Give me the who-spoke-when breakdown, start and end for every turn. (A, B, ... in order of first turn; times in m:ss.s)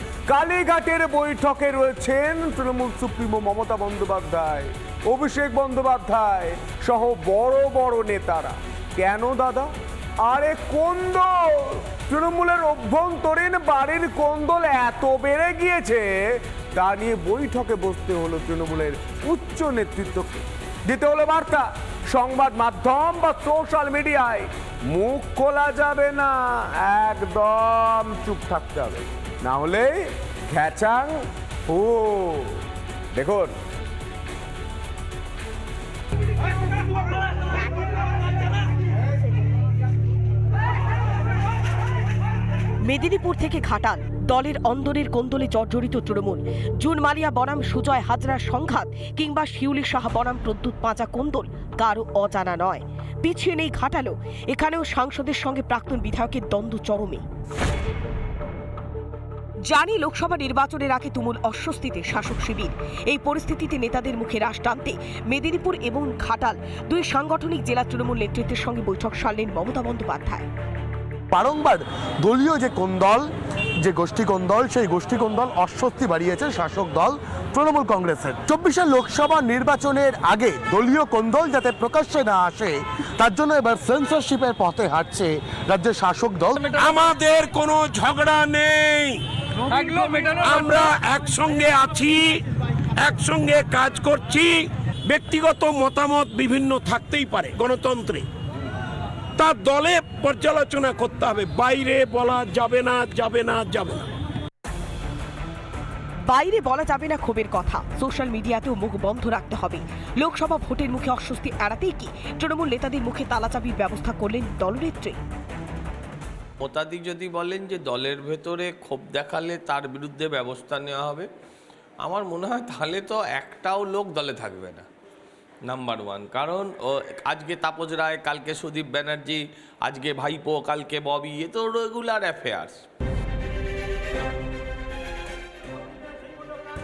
0:00.3-0:09.7 A
0:10.2-0:32.6 A
0:33.1-0:33.5 A
0:42.8-0:57.2 B
0:59.6-1:10.5 B
1:11.3-1:13.3 C
1:13.8-1:26.7 C
1:26.7-1:32.4 D
1:33.0-1:38.2 D
1:39.4-1:44.1 D
1:46.2-1:55.2 B
1:56.6-2:01.3 E
2:02.0-2:04.9 E
2:05.6-2:12.8 E